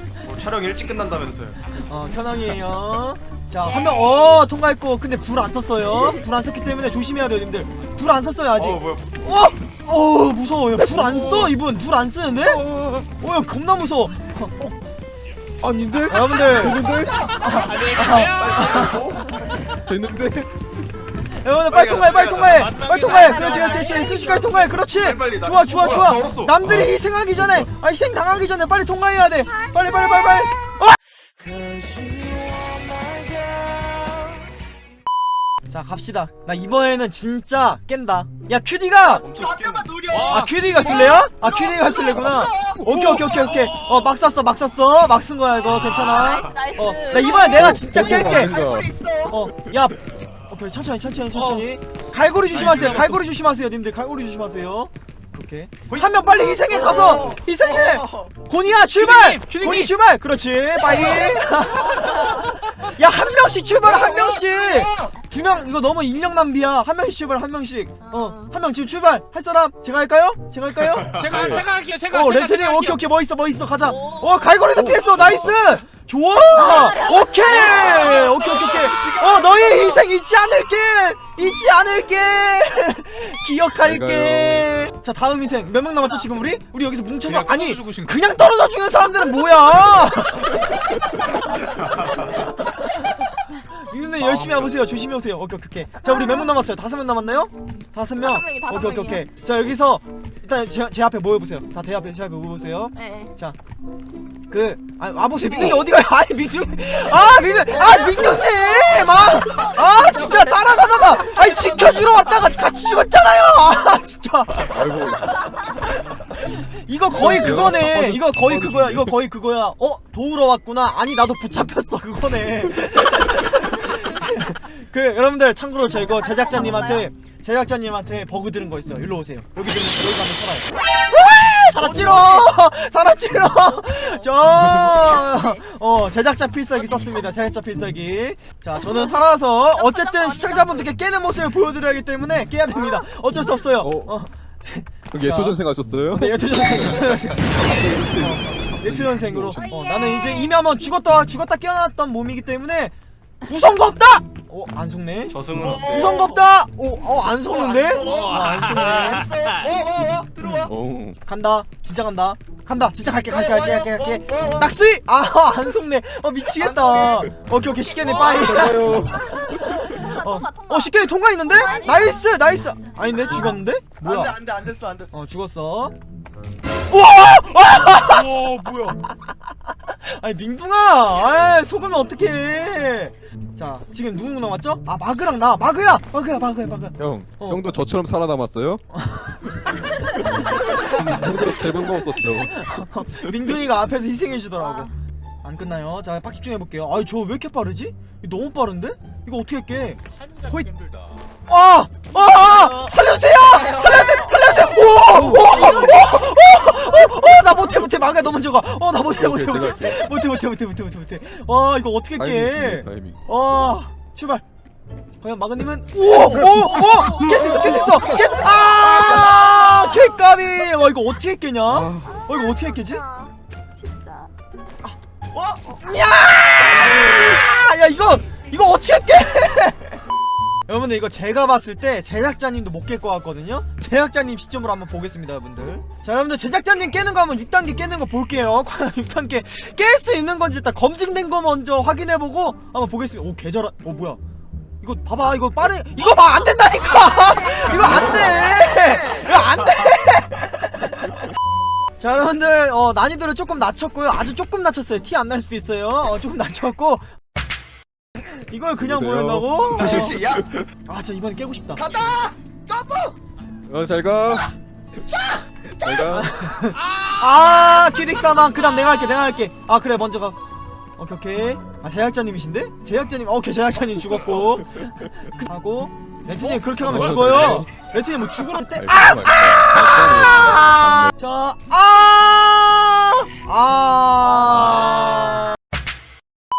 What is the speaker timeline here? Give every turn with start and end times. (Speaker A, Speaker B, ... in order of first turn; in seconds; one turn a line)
Speaker A: 0.2-1.6
Speaker B: 1.8-14.7
Speaker C: 3.6-4.3
Speaker A: 8.5-9.2
Speaker D: 15.6-17.4
Speaker B: 16.1-16.8
Speaker B: 17.4-19.1
Speaker E: 17.4-18.9
Speaker A: 18.5-19.2
Speaker D: 19.8-20.5
Speaker B: 21.2-31.0
Speaker A: 21.9-22.4
Speaker E: 21.9-24.0
Speaker C: 23.1-24.7
Speaker A: 24.7-26.6
Speaker D: 26.6-27.7
Speaker C: 29.5-29.8
Speaker C: 31.6-32.1
Speaker B: 35.7-39.3
Speaker A: 39.1-40.1
Speaker F: 39.3-40.5
Speaker E: 40.1-40.5
Speaker B: 40.2-48.5
Speaker F: 42.1-43.2
Speaker E: 43.3-44.0
Speaker A: 45.9-46.6
Speaker C: 46.1-48.0
Speaker D: 47.4-48.9
Speaker F: 48.1-49.4
Speaker B: 49.3-71.3
Speaker A: 52.5-53.2
Speaker F: 55.9-58.3
Speaker E: 58.9-59.9
Speaker C: 62.0-62.4
Speaker F: 63.8-65.1
Speaker C: 68.0-68.5
Speaker E: 71.0-73.0
Speaker D: 71.3-71.7
Speaker B: 72.1-90.7
Speaker C: 73.9-74.4
Speaker D: 74.8-75.5
Speaker C: 76.5-78.4
Speaker F: 78.2-80.0
Speaker D: 83.8-84.7
Speaker E: 87.3-88.1
Speaker B: 92.8-103.6
Speaker C: 96.1-96.5
Speaker C: 98.2-99.2
Speaker C: 103.0-103.3
Speaker B: 104.5-114.7
Speaker C: 107.8-109.0
Speaker D: 114.7-115.5
Speaker B: 116.5-145.6
Speaker D: 117.1-119.2
Speaker C: 126.1-127.1
Speaker C: 133.6-134.4
Speaker D: 134.6-135.0
Speaker C: 138.8-141.0
Speaker D: 143.8-144.1
Speaker D: 145.1-149.6
Speaker B: 146.1-152.9
Speaker C: 149.5-150.6
Speaker B: 153.4-159.3
Speaker A: 155.3-156.2
Speaker F: 155.6-156.4
Speaker F: 157.5-158.4
Speaker E: 158.1-159.7
Speaker F: 159.1-160.7
Speaker D: 160.4-161.2
Speaker B: 161.2-174.4
Speaker F: 163.2-164.6
Speaker F: 166.6-167.3
Speaker D: 168.1-169.8
Speaker C: 168.1-168.4
Speaker C: 169.1-172.3
Speaker F: 174.0-175.1
Speaker B: 175.1-175.9
Speaker B: 176.9-187.6
Speaker F: 178.1-178.9
Speaker D: 187.0-188.8
Speaker B: 188.9-189.4
Speaker D: 190.3-192.6
Speaker B: 192.2-194.9
Speaker C: 194.6-194.9
Speaker B: 195.4-200.7
Speaker E: 200.1-201.2
Speaker B: 201.5-214.4
Speaker F: 202.5-202.9
Speaker F: 203.5-204.4
Speaker D: 205.1-206.0
Speaker D: 209.1-210.1
Speaker D: 212.2-213.2
Speaker B: 215.2-223.0
Speaker F: 216.3-219.8
Speaker C: 219.8-220.1
Speaker D: 221.7-222.2
Speaker C: 222.0-224.3
Speaker F: 225.3-225.6
Speaker B: 225.8-230.0
Speaker B: 230.7-244.2
Speaker B: 244.8-251.0
Speaker B: 252.0-257.1
Speaker B: 258.3-260.2
Speaker D: 258.8-260.4
Speaker F: 259.8-260.5
Speaker B: 260.8-261.8
Speaker F: 261.8-263.1
Speaker D: 263.7-264.5
Speaker D: 265.8-266.3
Speaker B: 266.1-270.4
Speaker E: 266.8-267.1
Speaker B: 271.0-285.6
Speaker D: 276.7-277.7
Speaker D: 278.8-281.1